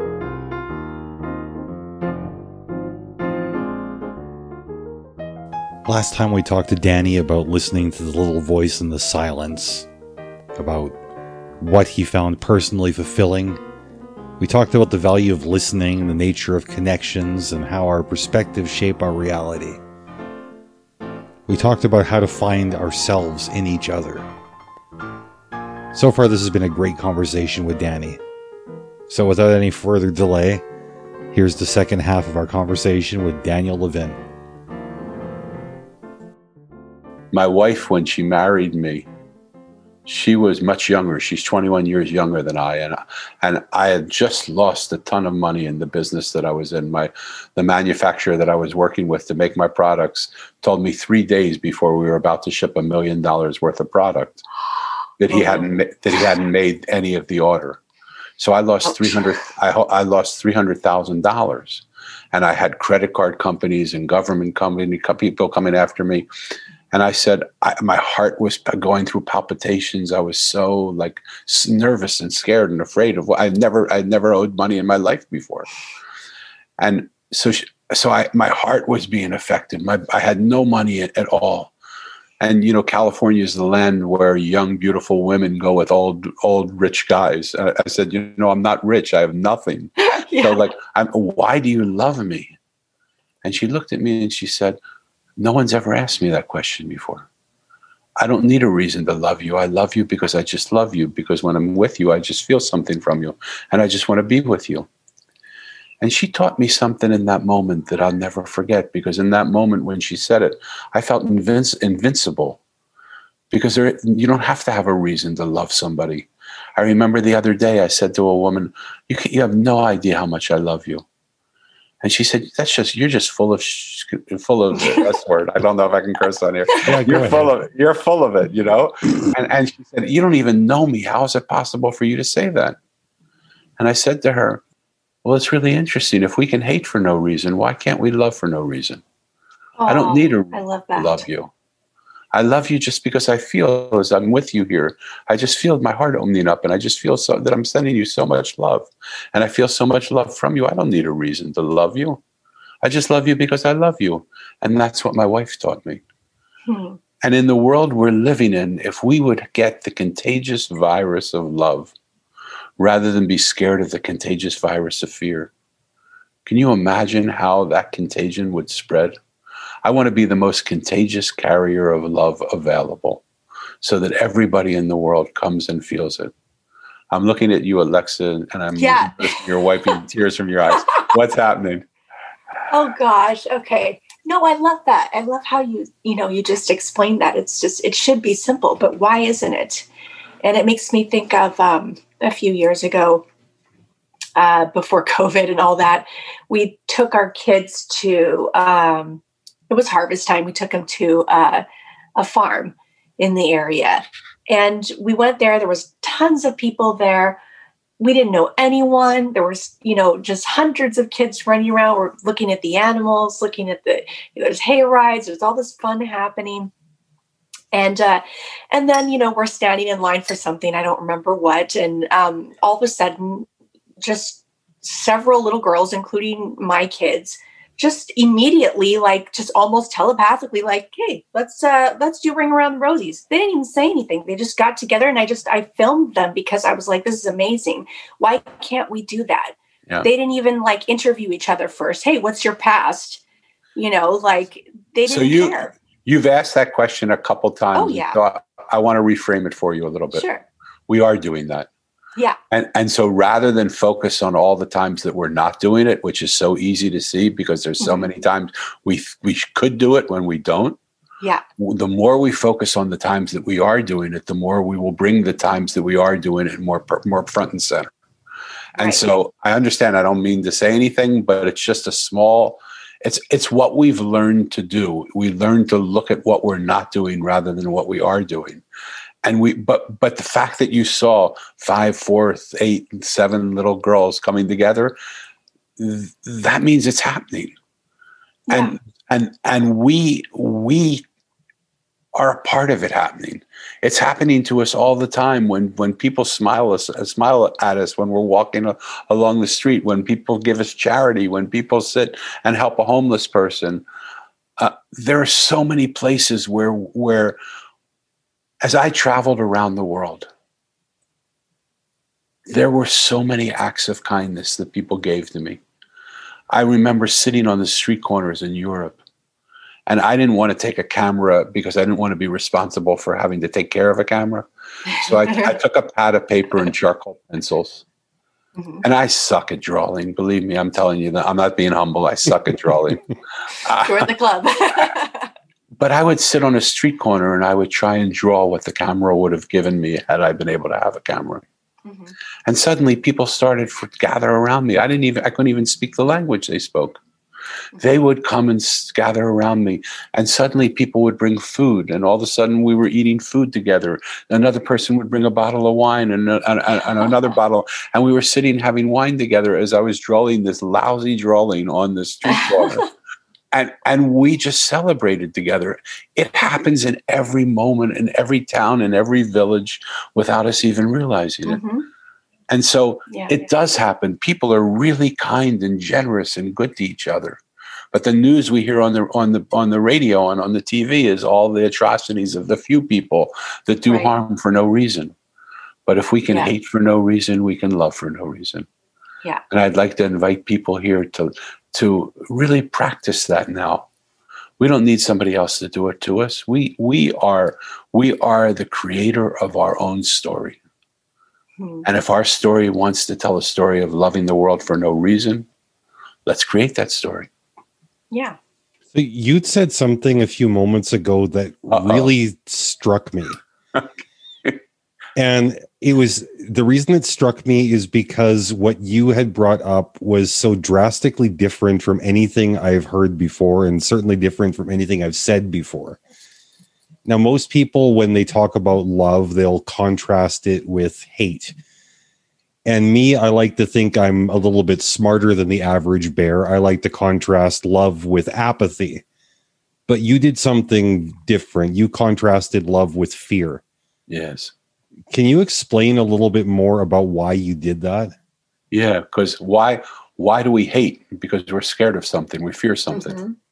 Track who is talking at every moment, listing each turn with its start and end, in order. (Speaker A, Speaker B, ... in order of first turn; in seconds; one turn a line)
Speaker A: 5.8-9.9
Speaker A: 10.6-10.9
Speaker A: 11.6-13.6
Speaker A: 14.4-19.8
Speaker A: 21.5-24.3
Speaker A: 25.9-28.2
Speaker A: 29.1-30.6
Speaker A: 31.3-34.2
Speaker B: 37.3-39.1
Speaker B: 40.0-54.4
Speaker B: 55.2-57.8
Speaker C: 55.3-55.7
Speaker B: 58.4-66.3
Speaker C: 58.9-59.2
Speaker B: 66.9-75.7
Speaker B: 76.8-81.7
Speaker B: 82.4-92.5
Speaker C: 90.0-90.7
Speaker B: 93.4-94.8
Speaker B: 95.4-97.3
Speaker B: 98.2-104.9
Speaker B: 106.0-112.6
Speaker B: 113.5-121.0
Speaker B: 122.0-132.8
Speaker A: 126.8-127.5
Speaker B: 133.8-134.6
Speaker B: 135.2-139.0
Speaker C: 139.8-141.2
Speaker B: 139.9-141.5
Speaker B: 142.3-152.2
Speaker B: 152.8-156.0
Speaker C: 156.7-157.0
Speaker B: 157.2-161.9
Speaker B: 162.8-165.5
Speaker B: 166.4-169.2
Speaker B: 169.8-173.2
Speaker B: 173.8-176.3
Speaker B: 177.1-181.8
Speaker C: 178.8-179.4
Speaker C: 182.7-189.9
Speaker C: 190.4-193.2
Speaker C: 194.3-201.6
Speaker C: 202.2-207.4
Speaker C: 208.0-216.7
Speaker C: 217.7-223.5
Speaker C: 224.0-243.2
Speaker C: 243.8-245.7
Speaker B: 245.1-250.2
Speaker C: 247.7-248.2
Speaker C: 250.1-250.4
Speaker B: 250.9-251.7
Speaker B: 252.5-260.8
Speaker C: 257.8-258.1
Speaker B: 261.6-267.9
Speaker C: 268.8-269.0
Speaker B: 268.8-278.6
Speaker B: 279.2-284.9
Speaker B: 285.8-287.5
Speaker C: 288.5-288.8
Speaker B: 288.5-291.0
Speaker B: 292.1-303.8
Speaker B: 304.6-307.4
Speaker B: 308.6-310.3
Speaker B: 312.5-315.6
Speaker B: 316.5-319.0
Speaker B: 319.9-327.8
Speaker C: 324.9-325.5
Speaker C: 328.6-328.8
Speaker B: 328.8-333.1
Speaker B: 333.6-334.1
Speaker C: 333.7-335.3
Speaker B: 335.8-341.4
Speaker C: 341.8-342.1
Speaker B: 342.4-347.0
Speaker B: 347.8-362.9
Speaker B: 363.5-371.6
Speaker C: 371.4-371.8
Speaker B: 372.5-377.4
Speaker C: 373.1-373.4
Speaker B: 377.9-385.1
Speaker B: 385.9-388.7
Speaker B: 389.5-393.9
Speaker B: 394.6-400.6
Speaker C: 401.6-401.9
Speaker B: 401.8-405.5
Speaker B: 406.2-407.3
Speaker C: 408.1-408.4
Speaker A: 408.9-413.4
Speaker B: 411.7-412.1
Speaker A: 415.1-426.0
Speaker A: 427.1-431.5
Speaker A: 432.6-439.0
Speaker A: 439.9-443.6
Speaker B: 444.1-444.5
Speaker A: 445.1-448.1
Speaker B: 448.7-453.2
Speaker C: 452.9-453.4